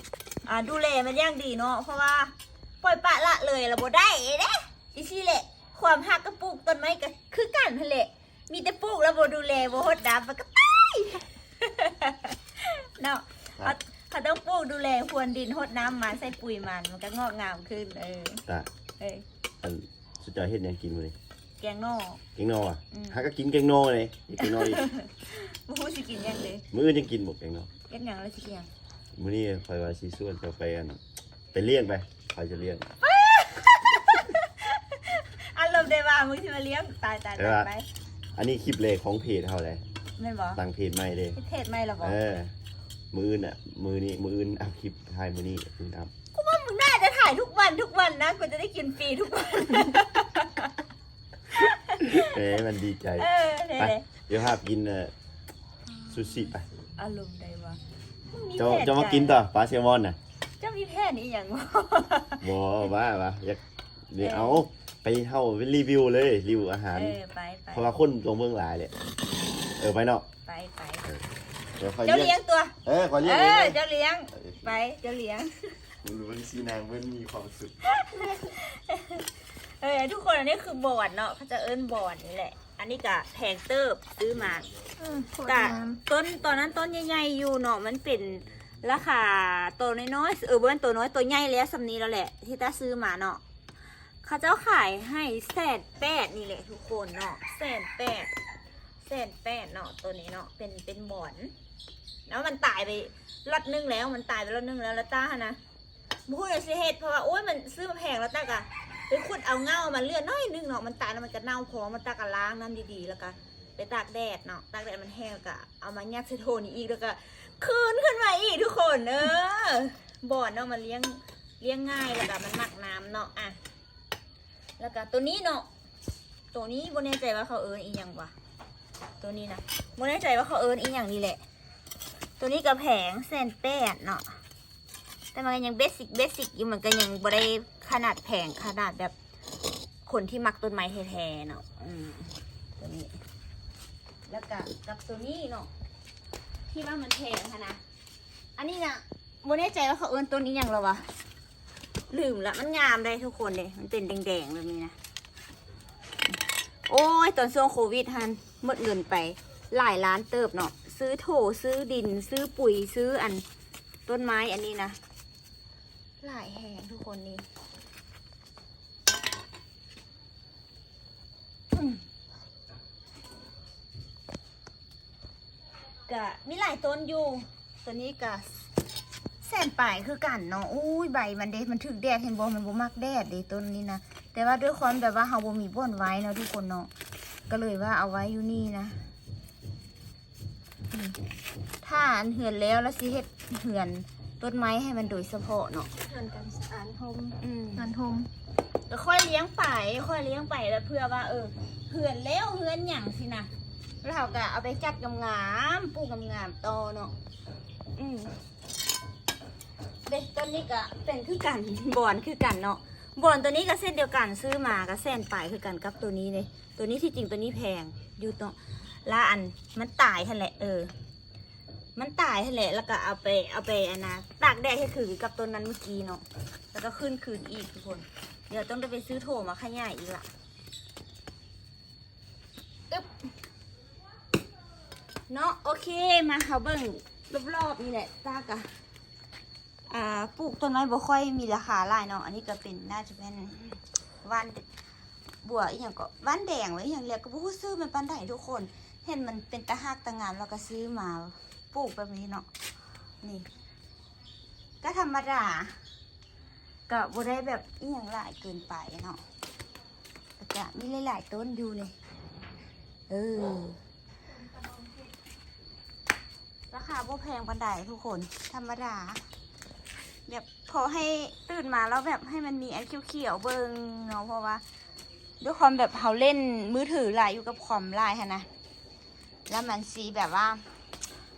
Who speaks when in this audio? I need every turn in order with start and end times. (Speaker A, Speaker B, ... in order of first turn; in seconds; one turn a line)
Speaker A: 0.5-18.4
Speaker A: 19.0-19.2
Speaker B: 19.6-21.1
Speaker A: 21.6-22.2
Speaker B: 22.4-24.9
Speaker A: 22.9-23.2
Speaker A: 24.4-26.6
Speaker B: 26.7-27.7
Speaker A: 27.9-28.7
Speaker B: 29.1-31.0
Speaker B: 31.5-32.9
Speaker A: 33.0-37.9
Speaker B: 37.4-37.7
Speaker B: 38.4-39.8
Speaker A: 40.2-40.6
Speaker B: 40.5-41.4
Speaker A: 41.4-42.2
Speaker B: 42.0-42.5
Speaker B: 43.1-46.1
Speaker A: 46.3-50.7
Speaker A: 51.5-52.4
Speaker B: 52.0-55.1
Speaker A: 53.2-54.1
Speaker B: 56.1-56.7
Speaker A: 56.1-59.4
Speaker B: 58.6-60.2
Speaker A: 60.6-62.5
Speaker B: 62.4-67.2
Speaker A: 64.2-64.7
Speaker A: 66.9-67.9
Speaker B: 67.7-68.9
Speaker B: 69.8-70.2
Speaker A: 70.5-71.1
Speaker B: 71.8-73.8
Speaker A: 72.0-75.8
Speaker B: 74.3-74.7
Speaker B: 76.0-77.8
Speaker A: 77.8-84.7
Speaker C: 85.0-86.0
Speaker A: 85.4-93.4
Speaker A: 94.2-98.3
Speaker A: 99.0-101.5
Speaker A: 102.3-105.6
Speaker A: 106.3-123.6
Speaker A: 124.8-125.7
Speaker A: 126.5-128.3
Speaker A: 129.2-131.4
Speaker A: 132.4-134.3
Speaker A: 135.3-139.1
Speaker A: 140.1-143.2
Speaker A: 144.3-145.7
Speaker A: 146.7-147.8
Speaker A: 148.6-151.1
Speaker A: 152.1-155.0
Speaker A: 156.9-163.4
Speaker A: 164.1-165.0
Speaker A: 166.2-167.4
Speaker A: 171.7-172.0
Speaker A: 176.1-178.5
Speaker A: 179.4-186.9
Speaker A: 187.5-189.0
Speaker A: 191.8-195.9
Speaker C: 196.0-198.3
Speaker A: 197.4-197.9
Speaker A: 198.9-203.5
Speaker A: 204.0-207.1
Speaker A: 207.9-208.3
Speaker A: 210.1-220.9
Speaker A: 222.0-230.3
Speaker A: 235.3-238.7
Speaker A: 239.9-244.6
Speaker A: 245.4-252.5
Speaker A: 254.8-255.7
Speaker A: 256.9-259.2
Speaker A: 260.4-261.9
Speaker A: 263.1-263.8
Speaker A: 266.7-269.2
Speaker A: 270.3-274.6
Speaker A: 275.4-278.5
Speaker A: 279.5-280.6